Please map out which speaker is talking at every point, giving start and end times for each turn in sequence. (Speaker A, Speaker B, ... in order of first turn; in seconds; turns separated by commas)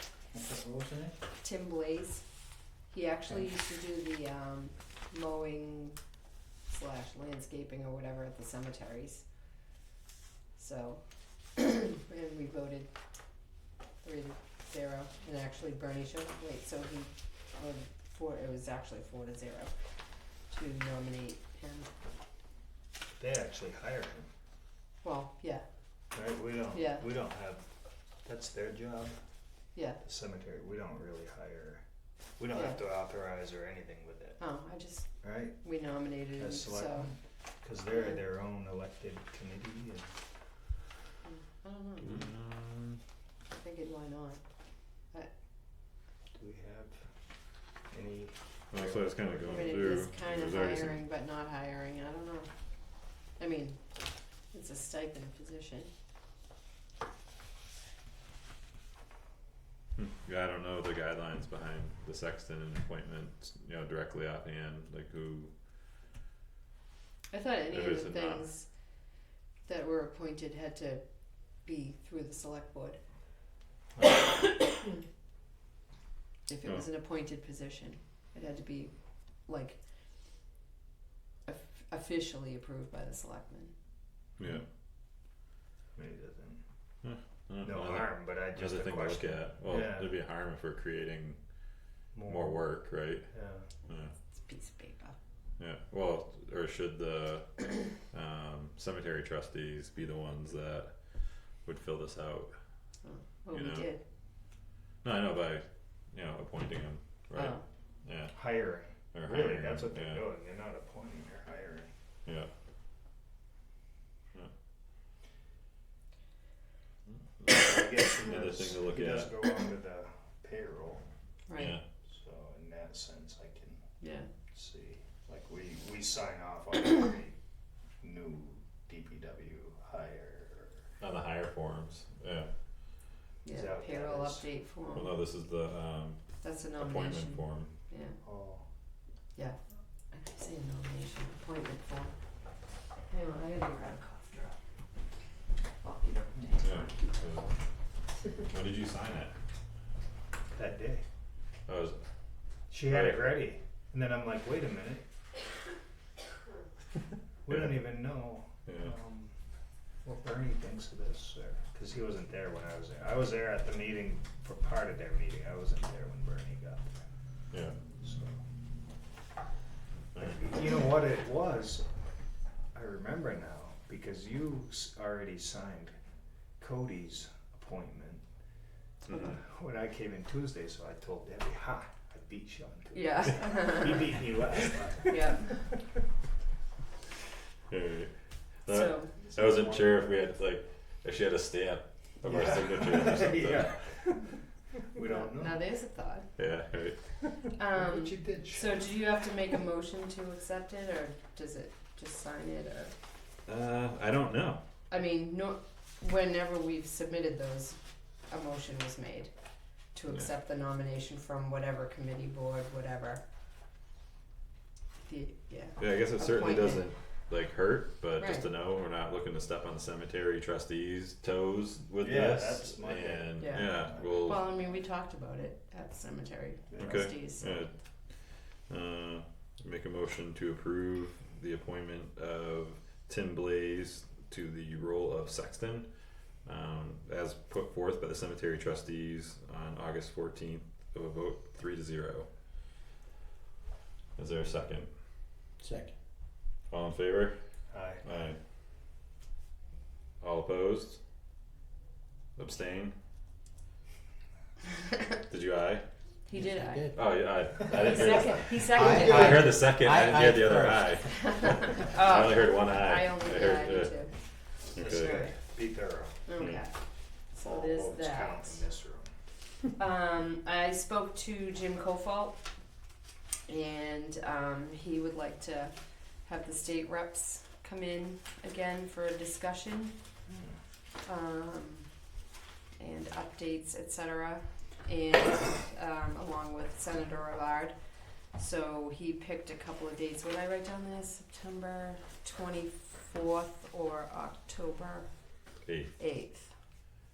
Speaker A: 0.4-1.1, Speaker B: 1.4-2.2, Speaker B: 2.9-6.0, Speaker B: 6.7-9.2, Speaker B: 10.6-11.0, Speaker B: 11.5-12.9, Speaker B: 14.0-19.7, Speaker B: 20.5-21.9, Speaker A: 23.2-24.3, Speaker B: 25.0-25.6, Speaker A: 26.1-27.6, Speaker B: 26.7-27.0, Speaker A: 28.2-29.1, Speaker A: 30.0-31.8, Speaker A: 32.4-34.4, Speaker B: 34.4-35.1, Speaker A: 35.2-35.5, Speaker B: 35.6-37.1, Speaker A: 36.4-40.1, Speaker B: 41.2-42.3, Speaker C: 42.0-43.0, Speaker B: 43.5-44.4, Speaker A: 46.3-47.0, Speaker A: 47.9-49.8, Speaker C: 48.7-51.0, Speaker B: 49.4-52.5, Speaker B: 53.4-53.8, Speaker B: 54.5-55.9, Speaker C: 60.0-65.5, Speaker B: 67.3-68.7, Speaker C: 67.7-68.5, Speaker B: 69.7-71.0, Speaker B: 71.6-73.0, Speaker B: 76.5-78.9, Speaker B: 79.5-79.8, Speaker B: 81.5-83.7, Speaker C: 84.4-84.6, Speaker A: 85.9-86.6, Speaker C: 87.0-91.4, Speaker A: 87.6-90.2, Speaker A: 92.1-92.6, Speaker C: 92.2-93.3, Speaker A: 93.3-93.7, Speaker C: 93.9-94.1, Speaker B: 94.3-95.2, Speaker C: 95.6-100.9, Speaker C: 101.6-102.5, Speaker B: 103.0-104.0, Speaker C: 103.5-103.9, Speaker C: 105.0-108.5, Speaker B: 107.3-107.6, Speaker A: 108.3-111.9, Speaker C: 109.1-110.2, Speaker A: 117.4-121.0, Speaker C: 118.1-119.3, Speaker B: 121.5-121.8, Speaker C: 121.5-121.8, Speaker A: 122.1-123.8, Speaker B: 124.0-124.3, Speaker A: 124.5-127.4, Speaker A: 128.0-130.8, Speaker C: 131.0-132.5, Speaker B: 133.4-135.1, Speaker A: 133.5-134.4, Speaker C: 134.9-136.2, Speaker B: 136.4-138.2, Speaker C: 136.8-137.7, Speaker A: 138.2-138.6, Speaker B: 140.1-142.1, Speaker B: 143.1-144.5, Speaker B: 145.8-147.1, Speaker C: 146.6-147.5, Speaker C: 148.3-149.3, Speaker A: 150.5-151.0, Speaker C: 151.7-152.0, Speaker A: 152.7-155.0, Speaker C: 152.8-153.3, Speaker A: 157.4-159.3, Speaker C: 157.5-157.8, Speaker C: 158.7-158.9, Speaker A: 160.0-167.0, Speaker C: 167.5-167.8, Speaker A: 168.0-168.4, Speaker A: 170.1-171.8, Speaker A: 172.7-175.9, Speaker A: 176.6-178.2, Speaker B: 179.1-179.4, Speaker C: 179.1-179.3, Speaker A: 179.2-185.6, Speaker B: 182.9-184.2, Speaker B: 185.1-185.7, Speaker C: 187.7-188.1, Speaker C: 188.7-193.7, Speaker B: 188.7-189.1, Speaker A: 189.4-190.0, Speaker A: 192.2-194.2, Speaker A: 194.9-195.6, Speaker B: 195.0-196.3, Speaker C: 196.4-197.0, Speaker B: 197.6-202.9, Speaker A: 197.7-199.0, Speaker C: 203.4-204.6, Speaker B: 204.9-207.8, Speaker B: 208.3-209.3, Speaker B: 209.9-213.2, Speaker B: 215.0-216.9, Speaker C: 215.8-224.4, Speaker B: 218.2-218.4, Speaker A: 222.0-224.3, Speaker B: 223.4-227.6, Speaker A: 226.7-227.1, Speaker C: 226.8-227.7, Speaker C: 228.7-235.9, Speaker C: 236.4-242.3, Speaker C: 244.2-244.9, Speaker D: 245.6-245.9, Speaker C: 246.7-247.3, Speaker A: 247.7-248.0, Speaker C: 248.0-248.4, Speaker C: 250.2-251.0, Speaker C: 252.4-252.9, Speaker C: 255.3-255.8, Speaker B: 256.2-257.0, Speaker D: 256.3-257.0, Speaker C: 256.9-264.0, Speaker B: 257.6-259.5, Speaker D: 258.6-261.9, Speaker A: 258.9-259.3, Speaker B: 261.2-264.1, Speaker C: 264.7-265.2, Speaker A: 264.7-266.2, Speaker B: 266.3-266.7, Speaker B: 267.3-268.6, Speaker A: 267.4-269.1, Speaker B: 269.8-272.4, Speaker B: 273.5-275.7, Speaker B: 276.2-279.9, Speaker A: 280.3-280.5, Speaker B: 281.0-281.9, Speaker B: 282.8-287.7, Speaker B: 288.3-295.1, Speaker C: 295.6-295.9, Speaker B: 296.0-296.5